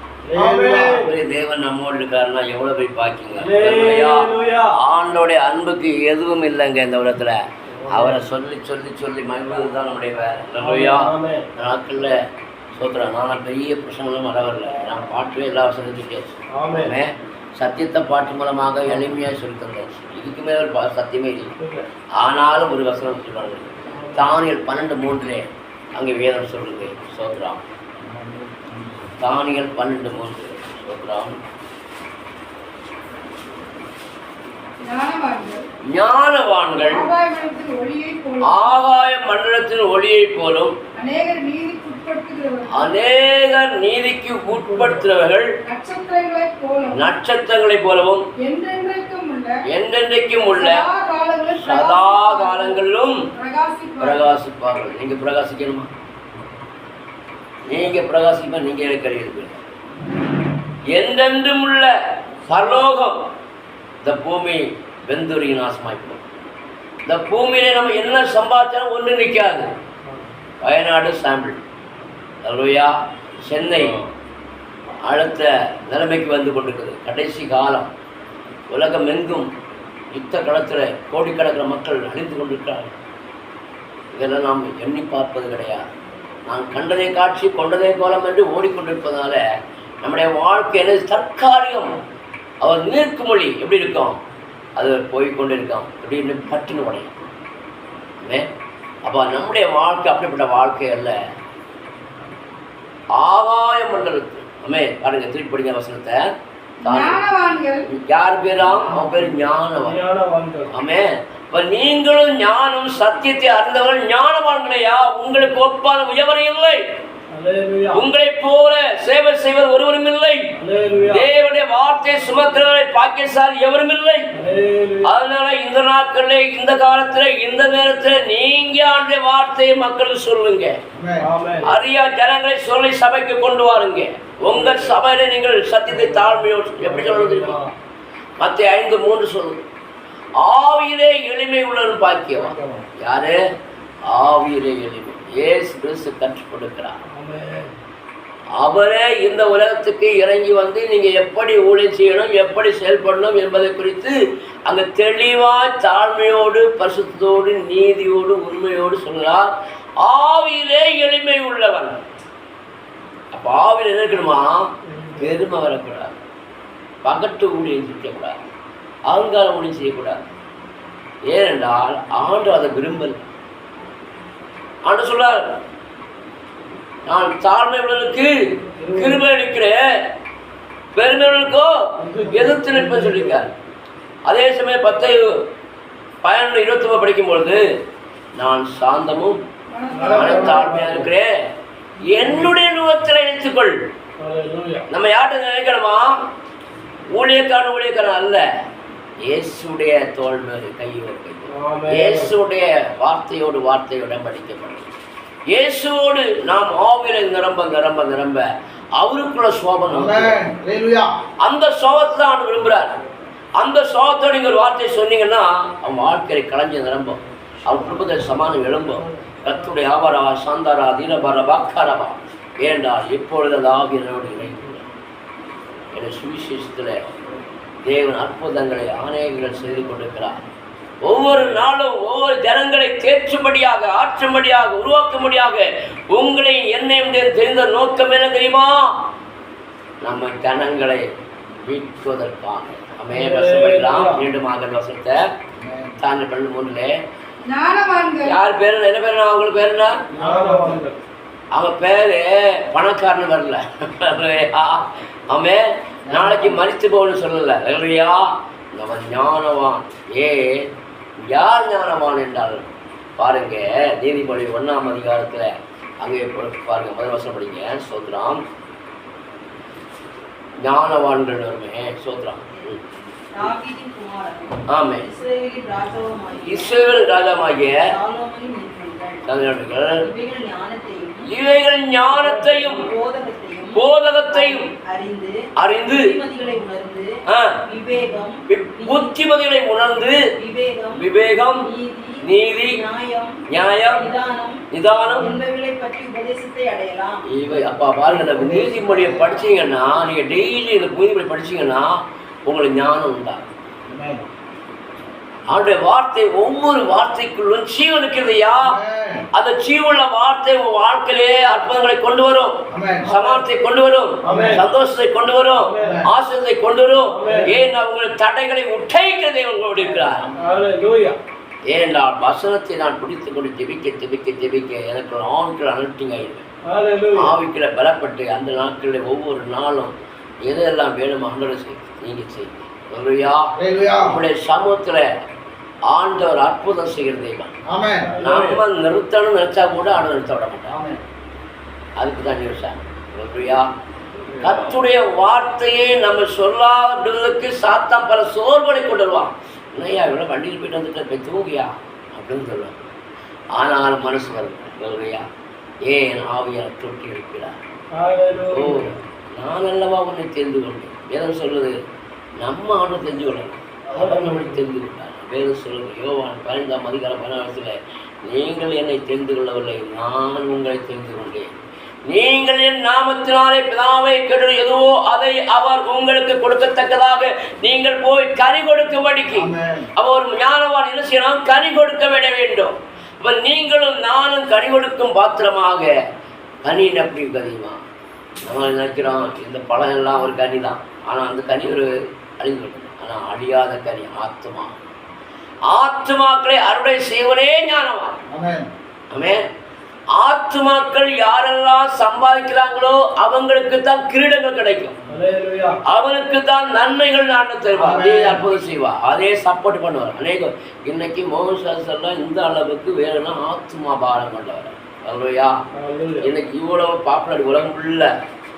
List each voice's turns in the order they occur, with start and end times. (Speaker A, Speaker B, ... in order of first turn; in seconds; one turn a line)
Speaker A: 0.2-1.1
Speaker B: 0.3-1.0
Speaker C: 0.8-12.2
Speaker A: 3.4-4.8
Speaker A: 7.8-8.2
Speaker A: 10.6-11.5
Speaker C: 12.8-21.5
Speaker A: 16.5-17.0
Speaker A: 21.6-21.9
Speaker C: 22.2-27.6
Speaker A: 23.9-24.2
Speaker B: 28.0-29.0
Speaker C: 29.2-31.4
Speaker D: 34.9-35.6
Speaker C: 35.9-37.1
Speaker D: 36.9-38.8
Speaker C: 38.4-40.8
Speaker D: 40.9-42.9
Speaker C: 42.7-45.5
Speaker A: 44.5-45.1
Speaker D: 45.6-47.1
Speaker C: 46.9-48.2
Speaker D: 48.4-49.5
Speaker C: 49.7-50.9
Speaker D: 50.4-52.8
Speaker C: 51.6-53.2
Speaker D: 53.3-54.3
Speaker C: 54.0-55.9
Speaker C: 57.7-59.6
Speaker C: 60.9-61.9
Speaker C: 62.5-63.2
Speaker C: 64.0-66.2
Speaker C: 67.1-69.7
Speaker A: 70.1-70.3
Speaker C: 70.6-71.6
Speaker C: 72.4-72.9
Speaker C: 73.4-74.0
Speaker C: 75.1-77.9
Speaker C: 78.7-79.5
Speaker C: 80.1-82.9
Speaker C: 84.1-85.8
Speaker C: 86.5-89.4
Speaker C: 90.0-91.9
Speaker C: 92.6-94.2
Speaker C: 94.8-97.2
Speaker C: 99.0-101.2
Speaker C: 103.2-106.3
Speaker C: 106.8-107.2
Speaker D: 106.8-107.9
Speaker C: 107.9-110.0
Speaker A: 108.8-110.7
Speaker C: 110.7-116.8
Speaker A: 117.3-118.0
Speaker C: 117.9-120.5
Speaker A: 120.6-121.2
Speaker C: 121.1-124.3
Speaker A: 124.3-125.1
Speaker C: 125.0-130.8
Speaker B: 130.9-131.3
Speaker A: 131.2-131.8
Speaker C: 131.6-137.6
Speaker A: 134.5-135.0
Speaker A: 135.9-137.7
Speaker C: 138.4-139.6
Speaker C: 140.4-143.4
Speaker B: 142.5-142.8
Speaker C: 144.1-147.0
Speaker A: 147.1-147.7
Speaker C: 148.6-154.2
Speaker C: 154.7-159.5
Speaker C: 160.0-162.0
Speaker C: 163.3-166.2
Speaker A: 164.9-165.3
Speaker C: 167.0-168.4
Speaker C: 169.1-170.2
Speaker C: 171.3-173.3
Speaker C: 174.8-175.5
Speaker C: 177.1-178.3
Speaker A: 178.8-179.2
Speaker C: 178.9-179.8
Speaker C: 180.9-181.7
Speaker A: 182.0-183.3
Speaker C: 182.2-183.5
Speaker C: 184.3-185.3
Speaker C: 186.2-187.7
Speaker C: 188.3-189.4
Speaker D: 189.7-190.8
Speaker A: 189.9-191.1
Speaker C: 190.1-191.3
Speaker C: 192.1-193.8
Speaker A: 194.2-194.8
Speaker C: 194.9-196.2
Speaker C: 197.2-198.4
Speaker C: 199.2-204.9
Speaker A: 201.5-202.3
Speaker C: 205.5-208.5
Speaker C: 209.0-210.4
Speaker B: 209.9-211.1
Speaker C: 211.4-212.9
Speaker C: 213.6-224.8
Speaker C: 225.9-227.1
Speaker C: 227.8-230.4
Speaker C: 231.0-239.0
Speaker C: 240.0-241.0
Speaker C: 241.7-245.3
Speaker A: 243.1-244.3
Speaker B: 245.6-246.0
Speaker C: 246.0-246.9
Speaker D: 247.4-248.4
Speaker C: 248.2-250.0
Speaker B: 250.1-250.8
Speaker A: 250.2-251.0
Speaker C: 251.5-260.7
Speaker B: 256.1-256.6
Speaker C: 261.2-268.4
Speaker C: 270.6-272.8
Speaker E: 272.6-277.0
Speaker C: 274.7-275.1
Speaker C: 276.4-277.8
Speaker E: 277.6-279.3
Speaker C: 279.2-280.0
Speaker E: 280.0-281.4
Speaker C: 281.2-282.9
Speaker E: 282.1-287.1
Speaker C: 283.7-284.7
Speaker C: 285.6-286.1
Speaker C: 287.2-287.6
Speaker E: 287.7-289.1
Speaker C: 288.5-290.2
Speaker E: 290.2-291.0
Speaker C: 290.9-291.7
Speaker E: 291.6-297.2
Speaker C: 292.2-292.8
Speaker C: 293.5-294.1
Speaker C: 294.7-295.4
Speaker C: 297.3-303.4
Speaker B: 298.1-299.4
Speaker B: 303.9-304.2
Speaker C: 305.5-308.8
Speaker B: 308.6-309.2
Speaker C: 309.3-320.3
Speaker B: 312.7-313.2
Speaker A: 314.2-314.6
Speaker B: 314.2-314.6
Speaker A: 315.6-316.0
Speaker B: 315.8-316.1
Speaker A: 317.1-317.5
Speaker B: 320.0-320.5
Speaker A: 320.4-321.2
Speaker C: 321.7-326.5
Speaker A: 326.6-327.3
Speaker C: 327.1-335.1
Speaker B: 333.6-334.2
Speaker C: 335.9-337.5
Speaker B: 337.7-338.1
Speaker A: 338.0-338.6
Speaker C: 338.2-340.8
Speaker B: 340.7-341.0
Speaker C: 342.0-343.6
Speaker C: 344.4-352.9
Speaker C: 353.5-355.2
Speaker C: 355.9-357.6
Speaker A: 357.9-359.0
Speaker C: 358.5-361.8
Speaker C: 362.4-371.5
Speaker A: 363.9-364.6
Speaker C: 372.1-385.9
Speaker B: 379.3-379.9
Speaker C: 386.6-387.8
Speaker C: 388.4-394.8
Speaker C: 395.7-398.2
Speaker B: 398.3-398.7
Speaker C: 399.1-399.4
Speaker C: 400.1-405.0
Speaker A: 405.1-405.8
Speaker C: 405.9-415.5
Speaker B: 407.8-408.4
Speaker A: 415.8-416.3
Speaker C: 416.2-418.1